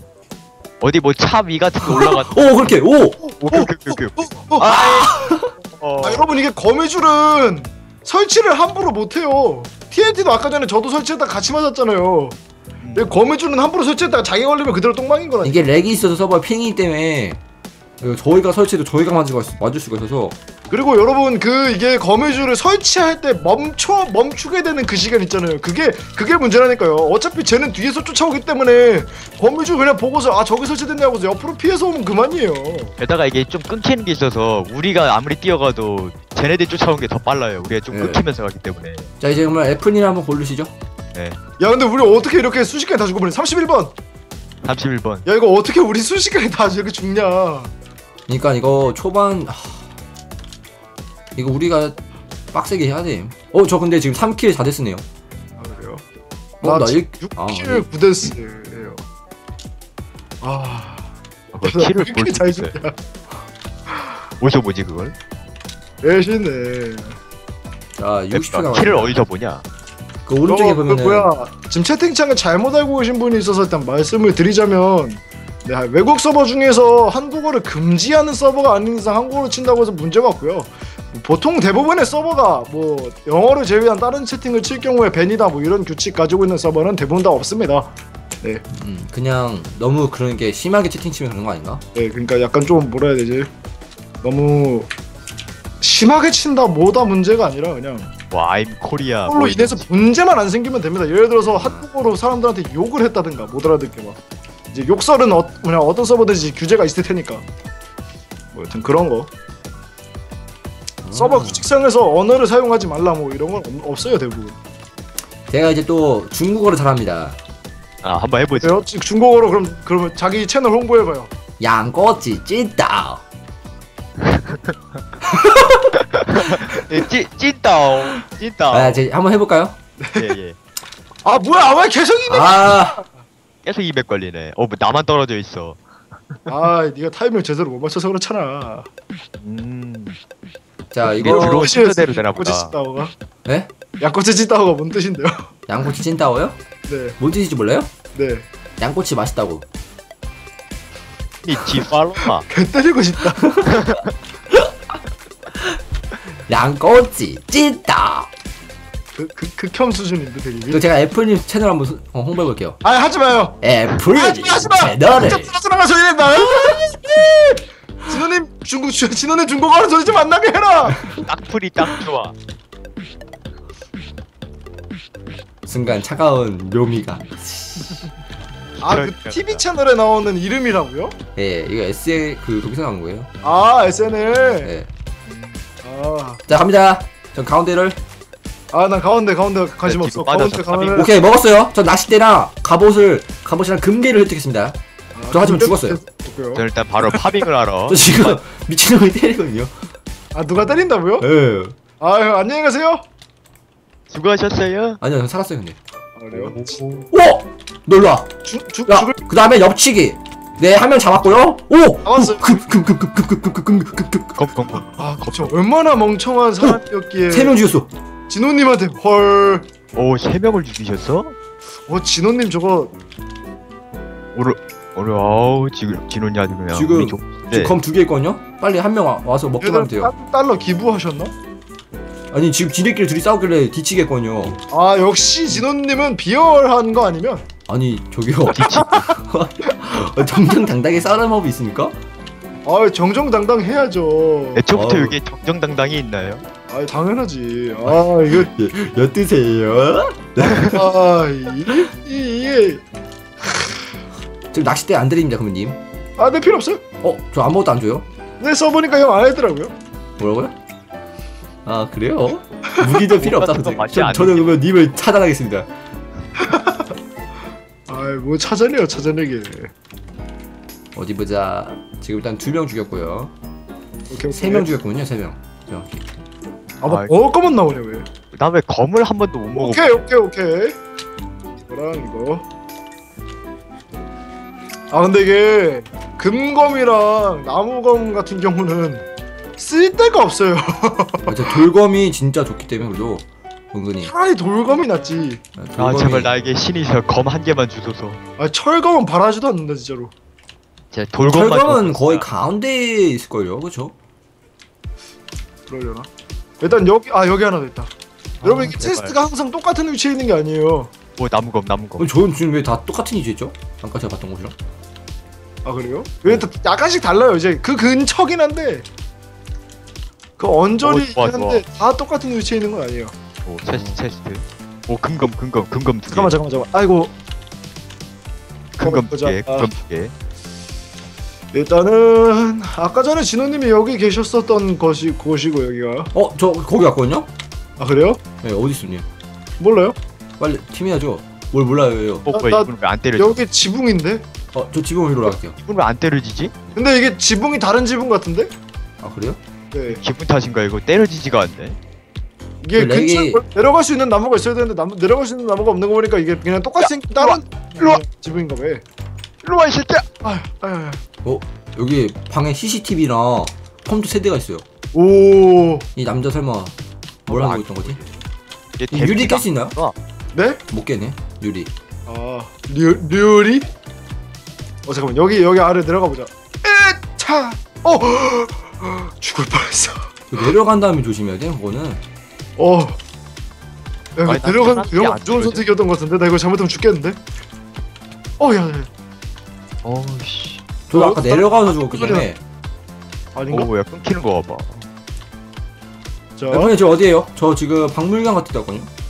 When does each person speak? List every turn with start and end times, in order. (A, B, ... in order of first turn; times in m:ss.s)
0:00.8-0:02.6 A
0:01.8-0:03.2 B
0:03.2-0:05.1 C
0:03.4-0:06.3 A
0:05.0-0:05.5 B
0:06.0-0:12.4 C
0:12.8-0:13.1 A
0:12.9-0:15.7 C
0:15.4-0:17.4 B
0:18.0-0:20.4 B
0:20.7-0:33.0 C
0:33.0-0:39.1 A
0:37.9-0:38.2 B
0:39.2-0:40.7 B
0:41.6-0:43.9 C
0:44.6-0:45.2 A
0:45.2-0:47.7 C
0:48.3-0:49.9 B
0:51.4-0:52.0 B
0:52.5-0:55.0 B
0:55.6-0:56.0 C
0:56.6-0:57.9 B
0:56.6-0:59.0 C
1:00.4-1:01.1 C
1:01.5-1:02.7 A
1:01.6-1:03.0 C
1:04.4-1:05.1 A
1:06.0-1:07.2 C
1:08.0-1:09.1 B
1:08.3-1:09.6 A
1:10.2-1:11.3 B
1:10.5-1:27.9 C
1:28.7-1:31.8 B
1:32.0-1:33.5 C
1:34.2-1:34.9 C
1:35.8-1:38.1 C
1:38.3-1:39.9 A
1:39.3-1:44.2 C
1:41.5-1:41.8 B
1:44.7-1:47.4 C
1:48.5-1:49.3 C
1:51.0-1:51.7 B
1:51.1-1:54.6 C
1:55.5-1:57.4 B
1:58.0-1:58.8 A
1:58.6-2:01.3 C
2:01.6-2:03.2 B
2:04.2-2:04.8 A
2:05.3-2:06.0 B
2:06.1-2:09.0 A
2:08.7-2:09.8 B
2:10.0-2:10.3 C
2:10.2-2:10.6 A
2:11.2-2:13.1 C
2:12.3-2:13.0 B
2:13.6-2:15.8 A
2:16.5-2:18.9 C
2:19.4-2:20.2 A
2:20.9-2:21.8 B
2:21.1-2:23.1 C
2:21.2-2:22.8 A
2:24.0-2:25.5 C
2:25.7-2:26.6 B
2:26.9-2:27.2 C
2:27.2-2:27.9 B
2:28.2-2:28.5 C
2:28.8-2:29.6 B
2:31.4-2:32.5 A
2:32.5-2:33.5 C
2:33.7-2:34.1 A
2:36.5-2:38.3 B
2:39.2-2:40.8 C
2:40.7-2:42.8 B
2:42.8-2:51.1 C
2:43.6-2:45.5 B
2:46.3-2:47.3 B
2:51.1-2:52.3 A
2:55.7-2:58.0 B
2:58.8-2:59.6 A
2:58.8-3:01.2 C
3:01.4-3:03.3 B
3:03.4-3:04.7 C
3:05.3-3:05.6 A
3:05.8-3:06.4 C
3:06.5-3:08.0 B
3:08.7-3:11.1 C
3:09.8-3:11.1 A
3:10.9-3:14.8 B
3:15.2-3:16.6 C
3:15.3-3:16.0 B
3:16.5-3:18.4 A
3:17.9-3:19.7 B
3:20.3-3:21.3 C
3:21.2-3:21.8 B
3:22.0-3:23.0 C
3:24.1-3:25.0 A
3:25.0-3:25.8 B
3:26.2-3:26.8 C
3:26.3-3:27.1 A
3:27.1-3:28.3 B
3:28.4-3:29.2 C
3:28.9-3:34.4 B
3:32.0-3:32.6 C
3:34.3-3:35.5 A
3:34.9-3:37.6 C
3:36.6-3:37.9 B
3:38.3-3:39.7 C
3:40.0-3:41.3 A
3:41.9-3:42.9 C
3:44.3-3:47.8 A
3:46.7-3:50.1 B
3:49.6-3:51.3 C
3:52.3-3:54.6 B
3:54.7-3:57.4 C
3:57.7-4:02.0 B
3:58.5-3:59.0 A
3:58.9-3:59.2 C
3:59.7-4:00.0 C
4:02.6-4:04.6 C
4:04.5-4:06.4 A
4:04.7-4:05.2 B
4:06.7-4:08.5 C
4:08.2-4:10.8 B
4:10.7-4:12.8 C
4:14.5-4:15.8 B
4:16.2-4:16.8 C
4:17.0-4:18.0 B
4:18.4-4:19.7 C
4:20.2-4:20.5 B
4:21.6-4:25.7 B
4:23.0-4:24.5 A
4:26.4-4:26.9 C
4:27.9-4:29.7 C
4:31.0-4:33.3 B
4:34.1-4:34.7 C
4:34.3-4:36.0 B
4:36.8-4:38.1 C
4:36.8-4:37.1 A
4:38.3-4:40.0 A
4:39.5-4:40.8 C
4:41.7-4:42.5 C
4:44.9-4:49.0 C
4:49.6-4:51.6 C
4:51.3-4:54.1 B
4:54.0-4:55.4 C
4:55.6-4:56.3 B
4:55.8-4:58.2 A
4:58.4-5:00.1 C
5:00.9-5:02.3 A
5:01.2-5:03.9 B
5:05.7-5:06.1 C
5:06.6-5:07.9 C
5:08.4-5:09.2 A
5:08.4-5:10.9 C
5:11.2-5:12.0 A
5:12.0-5:14.5 B
5:15.6-5:18.8 C
5:20.4-5:23.1 C
5:20.8-5:21.6 A
5:23.4-5:26.3 A
5:26.1-5:27.1 C
5:28.8-5:30.1 A
5:28.8-5:29.7 C
5:31.5-5:36.1 C
5:36.1-5:37.3 B
5:37.8-5:38.2 C
5:38.4-5:39.0 B
5:39.6-5:40.0 C
5:40.4-5:42.2 B
5:42.3-5:43.4 A
5:42.3-5:44.2 C
5:44.5-5:45.6 B
5:45.6-5:46.6 A
5:46.8-5:48.5 C
5:49.0-5:49.4 B
5:49.7-5:50.0 C
5:49.9-5:51.8 A
5:52.6-5:58.8 C
5:52.8-5:53.4 B
5:56.8-5:58.0 A
5:59.4-6:00.1 A
6:00.2-6:01.0 C
6:01.2-6:04.6 B
6:04.9-6:05.9 C
6:06.0-6:06.7 B
6:07.2-6:08.0 B
6:07.3-6:08.1 A
6:08.8-6:10.0 A
6:08.9-6:09.8 B
6:10.3-6:10.6 C
6:10.7-6:11.7 B
6:12.1-6:13.7 C
6:14.8-6:20.1 C
6:20.3-6:22.0 B
6:22.6-6:23.0 C
6:24.2-6:27.2 C
6:24.2-6:25.7 A
6:28.4-6:28.9 C
6:29.8-6:30.6 A
6:30.9-6:32.4 B
6:30.9-6:32.2 C
6:33.3-6:33.7 C
6:33.5-6:34.8 A
6:36.4-6:36.7 C
6:36.5-6:38.9 B